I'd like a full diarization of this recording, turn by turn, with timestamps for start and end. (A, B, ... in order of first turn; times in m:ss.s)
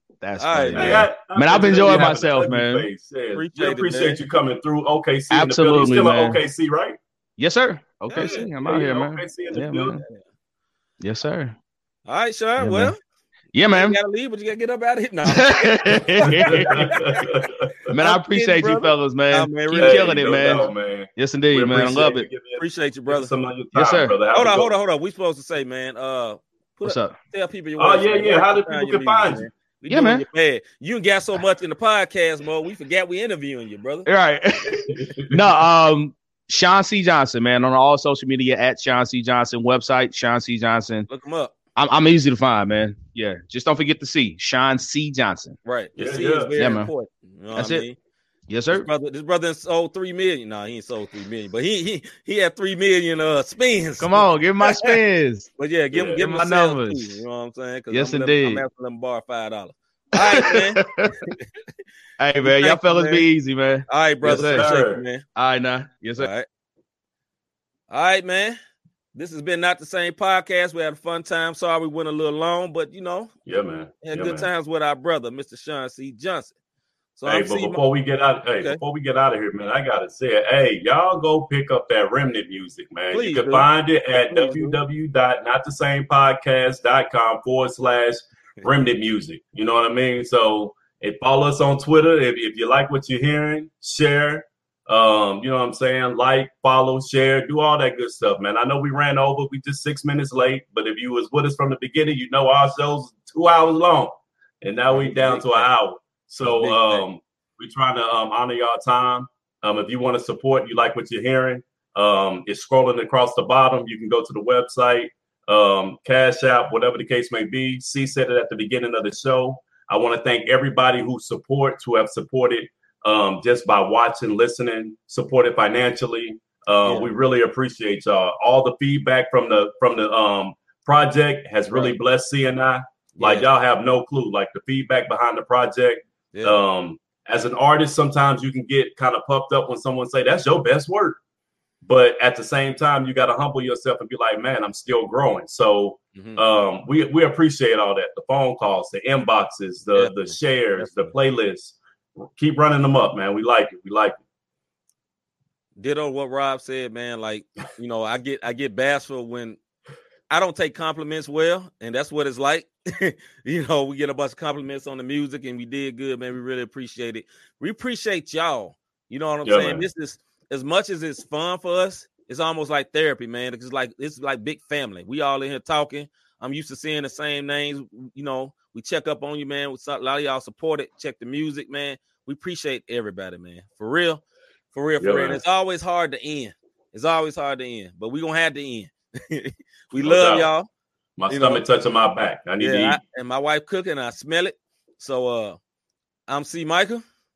0:00.2-0:02.9 A
0:00.4-0:01.0 B
0:00.8-0:07.0 C
0:01.8-0:02.2 B
0:03.3-0:04.2 B
0:05.3-0:06.4 A
0:07.4-0:10.0 A
0:08.1-0:08.5 B
0:08.2-0:10.0 C
0:10.0-0:10.2 B
0:11.0-0:11.6 A
0:12.1-0:13.0 B
0:12.6-0:12.9 A
0:13.5-0:14.0 A
0:13.7-0:16.9 B
0:15.2-0:16.9 A
0:16.5-0:17.9 C
0:17.9-0:22.3 A
0:17.9-0:20.4 B
0:19.7-0:24.7 C
0:22.6-0:23.3 B
0:23.7-0:24.1 A
0:24.3-0:34.1 B
0:26.8-0:27.2 A
0:27.8-0:29.5 C
0:29.9-0:30.2 A
0:34.1-0:41.1 A
0:34.9-0:35.4 C
0:41.1-0:41.5 B
0:41.8-0:45.6 A
0:45.6-0:48.0 B
0:46.0-0:46.5 C
0:46.6-0:46.9 A
0:47.6-0:47.9 A
0:48.5-0:48.9 A
0:48.7-0:55.0 B
0:54.0-0:55.5 A
0:55.6-1:01.3 B
0:55.9-0:56.2 C
0:56.2-0:57.2 A
0:57.9-0:58.6 A
1:00.2-1:01.2 A
1:02.2-1:04.7 A
1:02.4-1:03.3 B
1:03.9-1:05.2 B
1:04.2-1:05.0 C
1:05.4-1:06.3 A
1:06.2-1:06.5 B
1:07.9-1:08.6 B
1:09.2-1:13.3 B
1:13.5-1:14.5 C
1:14.0-1:16.5 B
1:17.2-1:17.8 B
1:17.3-2:21.2 C
1:23.1-1:23.7 B
1:24.3-1:24.8 B
1:44.9-1:45.7 B
1:46.5-1:47.0 B
2:06.8-2:07.1 B
2:13.2-2:13.5 B
2:16.3-2:16.6 B
2:21.8-2:31.8 C
2:26.2-2:26.4 B
2:30.0-2:31.1 B
2:32.4-2:34.2 C
2:35.8-2:39.6 B
2:40.3-3:04.2 B
2:49.4-2:49.8 C
3:04.7-3:10.7 B
3:05.0-3:05.4 C
3:10.0-3:10.5 C
3:11.2-3:13.0 C
3:11.3-3:11.6 B
3:12.6-3:15.6 B
3:16.3-3:17.0 B